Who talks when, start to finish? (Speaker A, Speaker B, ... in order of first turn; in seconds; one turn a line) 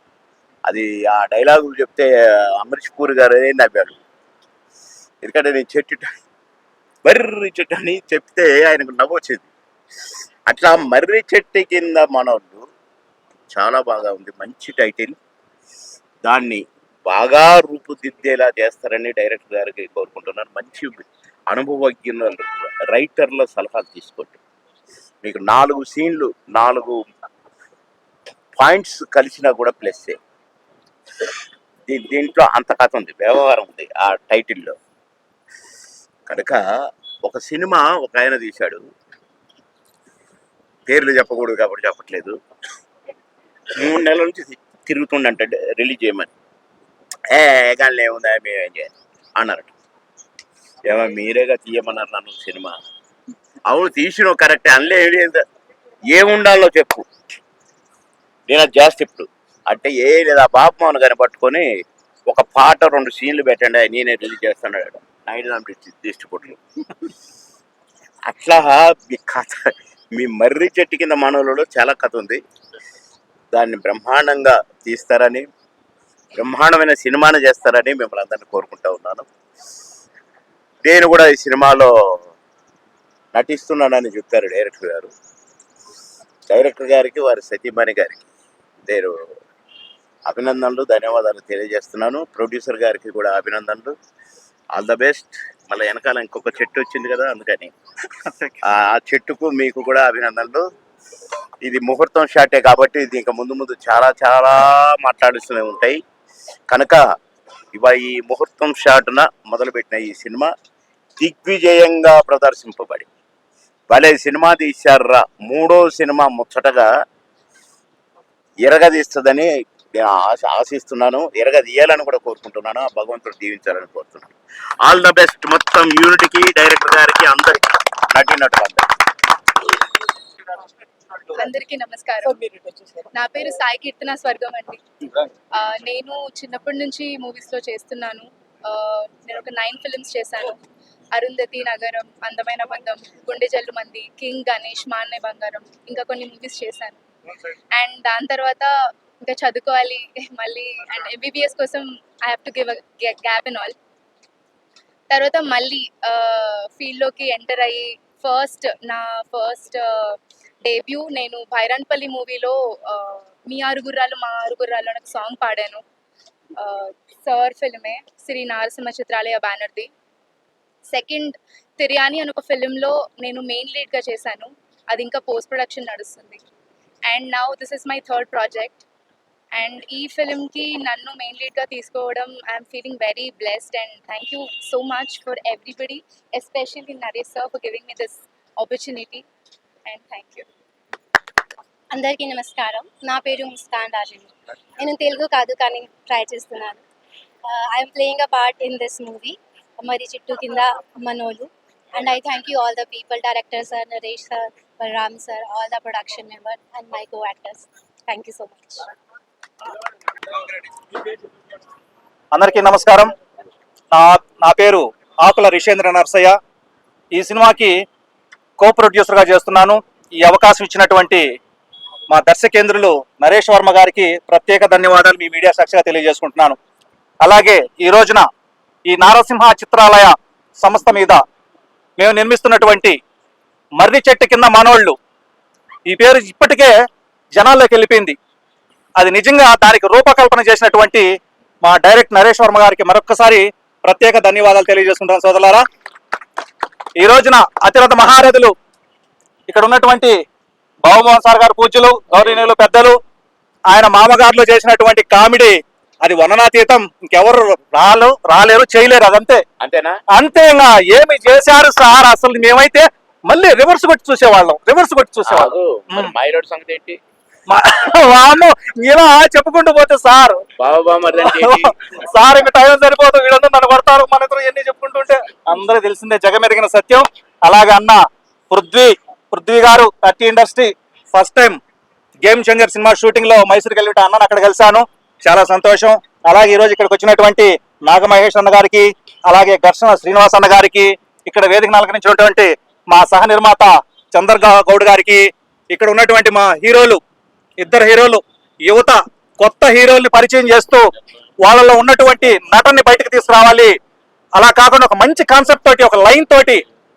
Speaker A: 0.7-4.0
Speaker A: 5.2-6.1
Speaker A: 7.0-9.5
Speaker A: 10.5-12.6
Speaker A: 13.5-15.2
Speaker A: 16.2-24.4
Speaker A: 25.2-27.0
Speaker A: 28.6-30.2
Speaker A: 31.9-34.8
Speaker A: 36.3-36.6
Speaker A: 37.2-38.9
Speaker A: 40.9-42.4
Speaker A: 43.7-46.3
Speaker A: 47.3-49.7
Speaker A: 50.8-52.8
Speaker A: 53.7-55.4
Speaker A: 56.1-57.0
Speaker A: 58.5-61.7
Speaker A: 62.3-66.6
Speaker A: 68.3-69.6
Speaker A: 70.1-72.4
Speaker A: 73.5-75.5
Speaker A: 76.3-79.2
Speaker A: 80.8-81.9
Speaker A: 83.3-85.1
Speaker A: 86.5-88.2
Speaker A: 88.8-89.1
Speaker A: 90.3-93.9
Speaker A: 94.7-97.7
Speaker B: 98.3-98.6
Speaker A: 98.7-100.6
Speaker A: 101.6-106.0
Speaker A: 106.7-107.0
Speaker A: 107.7-110.5
Speaker A: 111.2-113.1
Speaker A: 113.9-116.9
Speaker A: 118.6-128.8
Speaker C: 131.3-132.4
Speaker C: 133.0-134.8
Speaker C: 135.6-140.6
Speaker C: 141.1-147.0
Speaker C: 147.7-153.7
Speaker C: 155.1-165.8
Speaker C: 166.6-169.9
Speaker C: 170.9-176.4
Speaker C: 177.1-178.8
Speaker C: 179.6-189.2
Speaker C: 189.9-190.4
Speaker D: 191.9-196.8
Speaker D: 197.5-208.8
Speaker B: 212.3-213.1
Speaker B: 213.9-216.3
Speaker B: 217.1-217.8
Speaker B: 218.6-221.2
Speaker B: 222.1-226.6
Speaker B: 227.2-228.2
Speaker B: 228.9-231.2
Speaker B: 232.0-233.0
Speaker B: 233.8-234.9
Speaker B: 235.9-236.7
Speaker B: 237.3-238.2
Speaker B: 239.0-241.1
Speaker B: 241.6-245.6
Speaker B: 247.0-248.5
Speaker B: 249.5-250.2
Speaker B: 250.8-253.0
Speaker B: 253.7-259.4
Speaker A: 259.6-259.9
Speaker B: 260.1-266.1
Speaker A: 265.2-267.0
Speaker B: 267.5-270.4
Speaker A: 270.6-271.7
Speaker B: 271.2-281.6
Speaker B: 282.2-297.0
Speaker B: 297.6-300.9
Speaker B: 301.4-303.7
Speaker B: 304.4-306.6